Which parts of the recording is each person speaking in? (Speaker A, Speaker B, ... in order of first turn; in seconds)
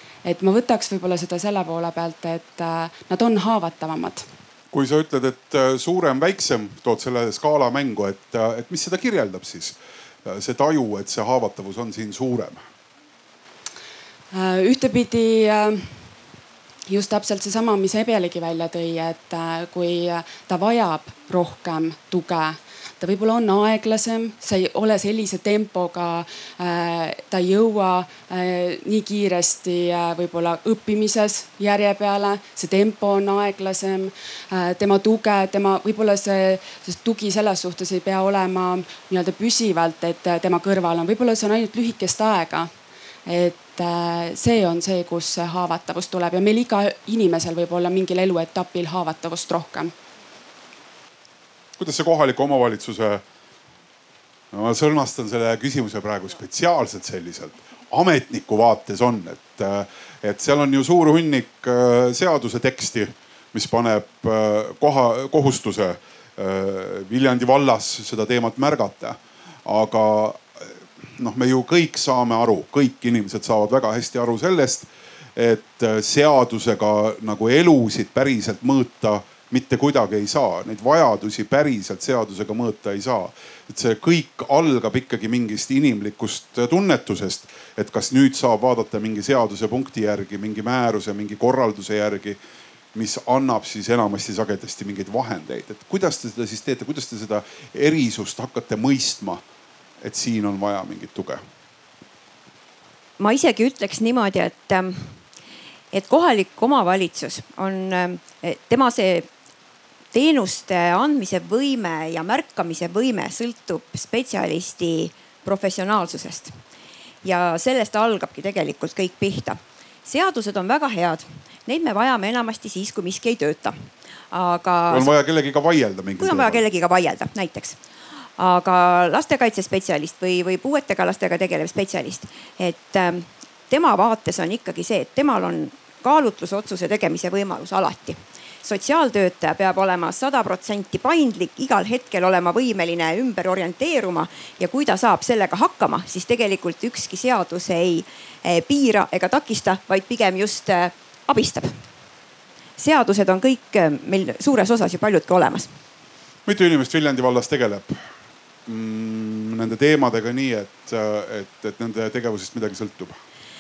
Speaker A: 0.2-4.3, 14.3-16.1, 16.9-42.7, 43.3-49.9
Speaker B: 4.7-12.6, 51.8-53.2, 54.5-92.4, 92.9-99.4, 100.0-101.4, 124.9-126.6, 156.5-158.0, 158.7-163.2
Speaker C: 103.2-105.2, 105.9-109.3, 110.1-116.6, 117.2-125.1, 126.2-127.8, 128.4-151.8, 152.8-155.7